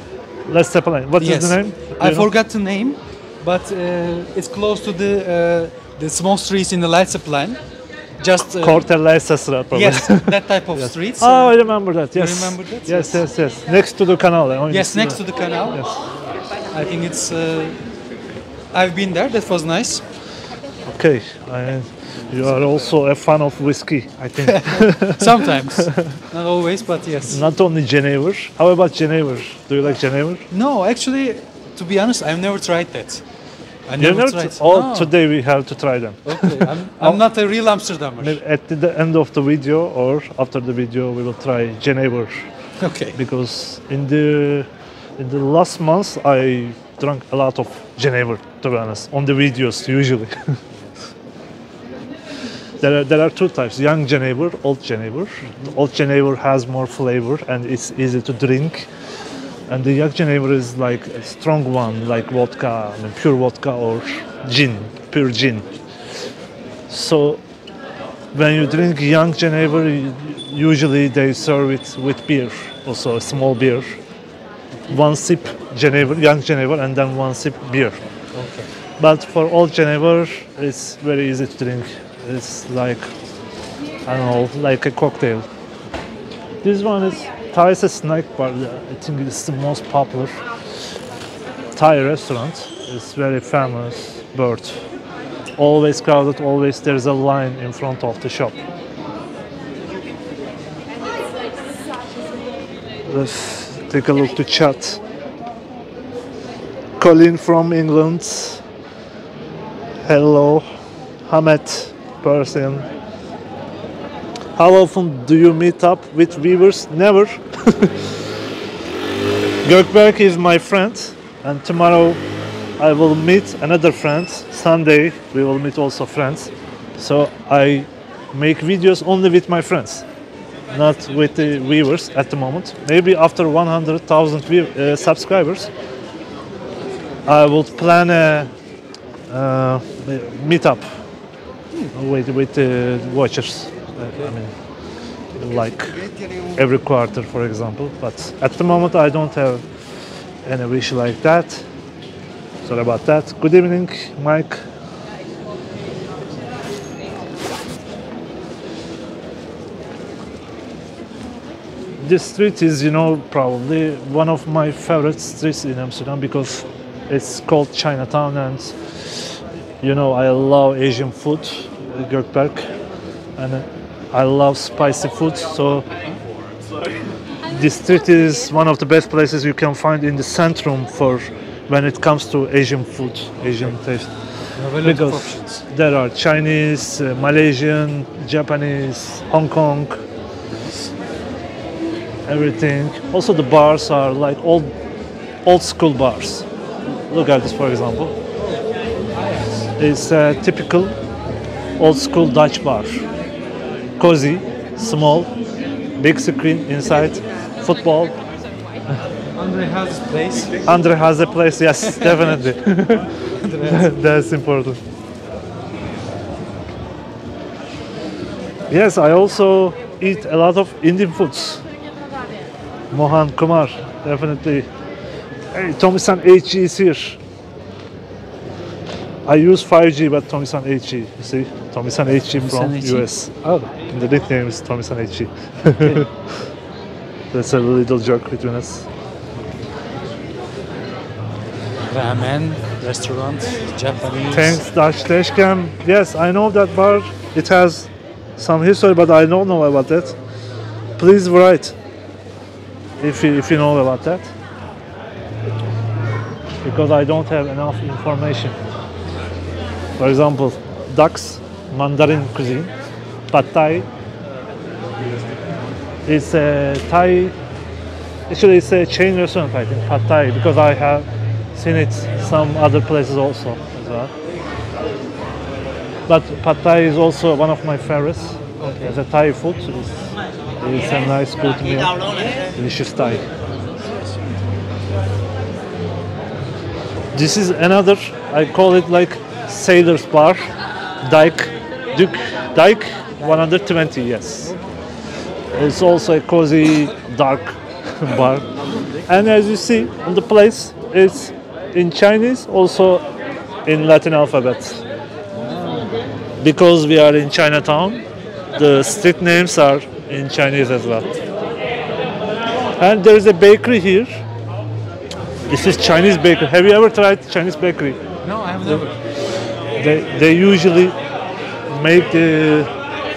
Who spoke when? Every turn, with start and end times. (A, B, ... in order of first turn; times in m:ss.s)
0:00.4-0:02.3 A
0:01.2-0:07.6 B
0:08.2-0:08.8 B
0:08.5-0:16.0 A
0:09.7-0:11.5 B
0:12.1-0:13.2 B
0:14.7-0:15.8 B
0:16.7-0:17.8 B
0:18.7-0:20.0 B
0:20.9-0:26.2 A
0:22.2-0:22.6 B
0:24.4-0:27.4 B
0:27.3-0:30.4 A
0:30.5-0:33.2 B
0:33.9-0:35.1 B
0:34.0-0:37.2 A
0:36.2-0:38.4 B
0:38.2-0:42.5 A
0:42.8-0:43.2 B
0:43.2-0:50.6 A
0:50.8-0:51.1 B
0:52.8-0:58.9 A
0:55.4-0:55.8 B
0:59.7-1:05.7 A
1:06.9-1:07.4 A
1:08.3-1:14.0 A
1:14.9-1:18.0 A
1:18.3-1:18.7 B
1:19.0-1:23.1 A
1:24.1-1:25.5 A
1:26.6-1:30.4 A
1:31.7-1:34.8 A
1:35.6-1:38.6 A
1:43.1-1:45.0 A
1:47.0-1:48.6 A
1:50.0-1:50.6 A
1:51.2-1:52.9 A
1:54.6-1:58.1 A
1:59.6-2:02.2 A
2:02.8-2:10.1 A
2:10.7-2:15.7 A
2:17.2-2:18.5 A
2:19.3-2:21.0 A
2:21.9-2:24.5 A
2:25.4-2:29.6 A
2:30.4-2:31.6 A
2:32.6-2:34.7 A
2:42.0-2:52.6 A
2:53.4-2:55.8 A
2:57.5-3:04.1 A
3:04.6-3:05.6 B
3:04.8-3:10.0 A
3:10.5-3:10.9 B
3:12.3-3:14.7 A
3:15.4-3:16.5 A
3:17.1-3:18.1 A
3:19.1-3:19.7 B
3:19.8-3:20.9 A
3:21.8-3:23.1 A
3:24.0-3:25.3 A
3:26.0-3:28.2 A
3:29.3-3:30.7 B
3:30.7-3:34.8 A
3:31.9-3:32.4 B
3:33.3-3:33.9 B
3:38.7-3:41.6 A
3:42.9-3:44.7 A
3:45.5-3:47.2 A
3:49.2-3:56.2 A
3:52.3-3:53.7 B
3:55.7-3:56.1 B
3:57.3-3:58.9 A
4:01.8-4:04.6 B
4:04.3-4:10.2 A
4:11.0-4:11.8 A
4:13.0-4:14.3 A
4:16.6-4:18.6 A
4:20.0-4:22.7 A
4:23.3-4:23.9 A
4:25.0-4:25.7 B
4:26.1-4:27.4 A
4:28.3-4:34.1 A
4:36.1-4:43.3 A
4:38.6-4:39.0 B
4:43.8-4:44.2 B
4:47.1-4:54.6 A
4:55.5-4:58.4 A
4:59.1-5:03.0 A
5:03.6-5:04.8 A
5:05.4-5:05.9 B
5:06.4-5:08.0 A
5:08.6-5:11.1 A
5:12.8-5:14.2 A
5:15.5-5:18.0 A
5:18.2-5:19.0 B
5:19.8-5:21.0 A
5:21.7-5:22.7 A